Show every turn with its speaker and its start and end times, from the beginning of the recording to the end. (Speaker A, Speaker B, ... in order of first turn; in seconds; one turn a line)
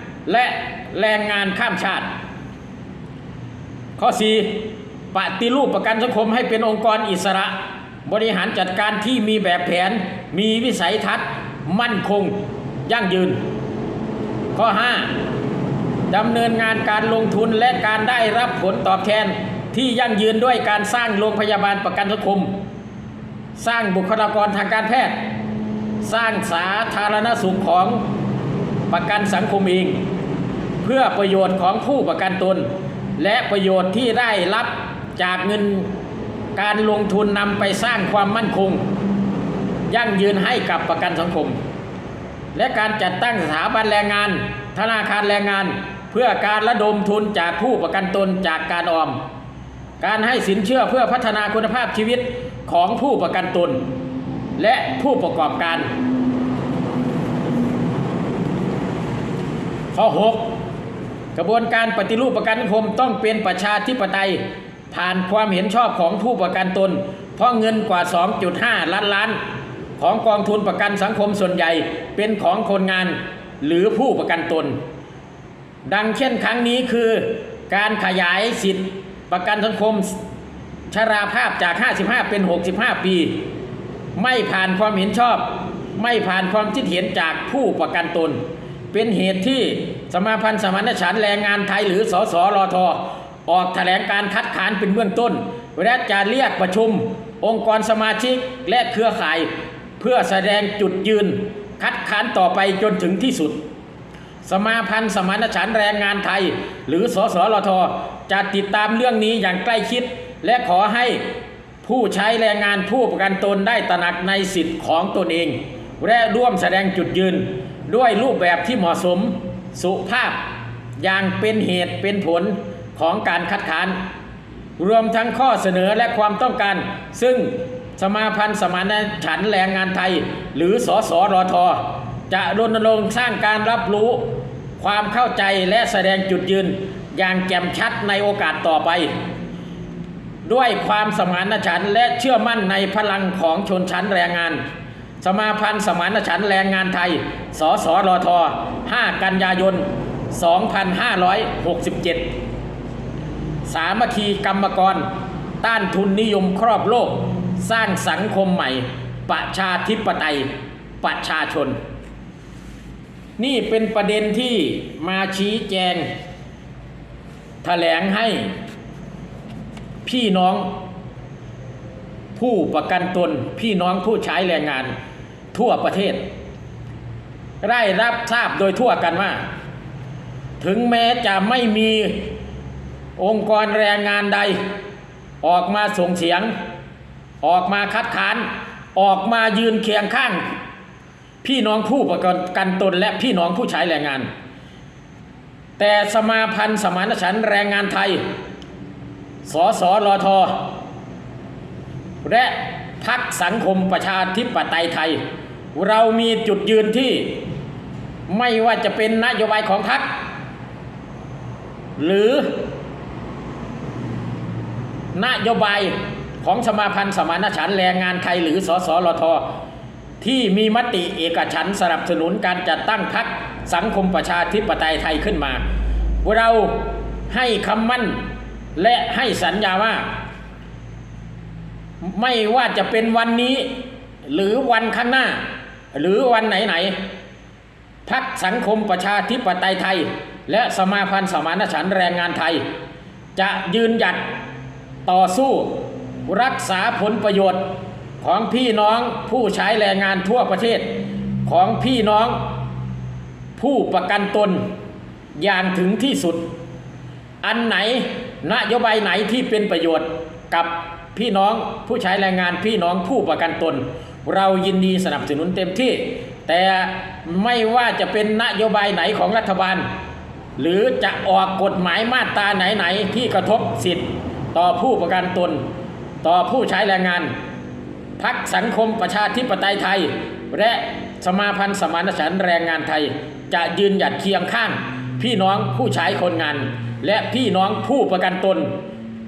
Speaker A: 0.2-2.1
Speaker A: 4.0-13.4
Speaker A: 14.5-15.1
Speaker A: 16.1-22.5
Speaker A: 23.6-25.2
Speaker A: 26.0-28.0
Speaker A: 28.9-30.0
Speaker A: 30.8-32.7
Speaker A: 33.2-35.9
Speaker A: 36.5-38.8
Speaker A: 39.9-41.6
Speaker A: 42.5-49.2
Speaker A: 50.0-53.8
Speaker A: 54.6-55.9
Speaker A: 59.9-60.5
Speaker A: 61.3-64.4
Speaker A: 64.9-69.4
Speaker A: 70.0-74.8
Speaker A: 75.9-80.2
Speaker A: 80.9-83.3
Speaker A: 84.2-88.4
Speaker A: 88.9-103.6
Speaker A: 104.4-111.2
Speaker A: 111.8-120.4
Speaker A: 121.0-124.0
Speaker A: 124.8-139.1
Speaker A: 140.4-144.6
Speaker A: 145.2-152.3
Speaker A: 153.7-155.1
Speaker A: 155.6-160.5
Speaker A: 161.0-161.8
Speaker A: 163.4-166.1
Speaker A: 167.6-168.5
Speaker A: 170.0-170.7
Speaker A: 172.3-174.9
Speaker A: 175.5-176.2
Speaker A: 177.6-179.4
Speaker A: 180.6-182.3
Speaker A: 183.2-184.6
Speaker A: 185.4-186.5
Speaker A: 187.4-190.4
Speaker A: 191.4-194.3
Speaker A: 195.8-198.2
Speaker A: 199.4-200.7
Speaker A: 202.2-205.2
Speaker A: 205.7-207.4
Speaker A: 208.3-210.1
Speaker A: 212.0-212.6
Speaker A: 215.1-219.4
Speaker A: 220.2-225.6
Speaker A: 226.2-228.2
Speaker A: 228.8-230.1
Speaker A: 232.0-237.0
Speaker A: 238.1-242.6
Speaker A: 243.3-244.2
Speaker A: 245.1-247.6
Speaker A: 248.2-252.5
Speaker A: 253.6-254.7
Speaker A: 255.4-256.4
Speaker A: 257.4-269.9
Speaker A: 270.6-275.6
Speaker A: 276.2-277.3
Speaker A: 278.2-288.8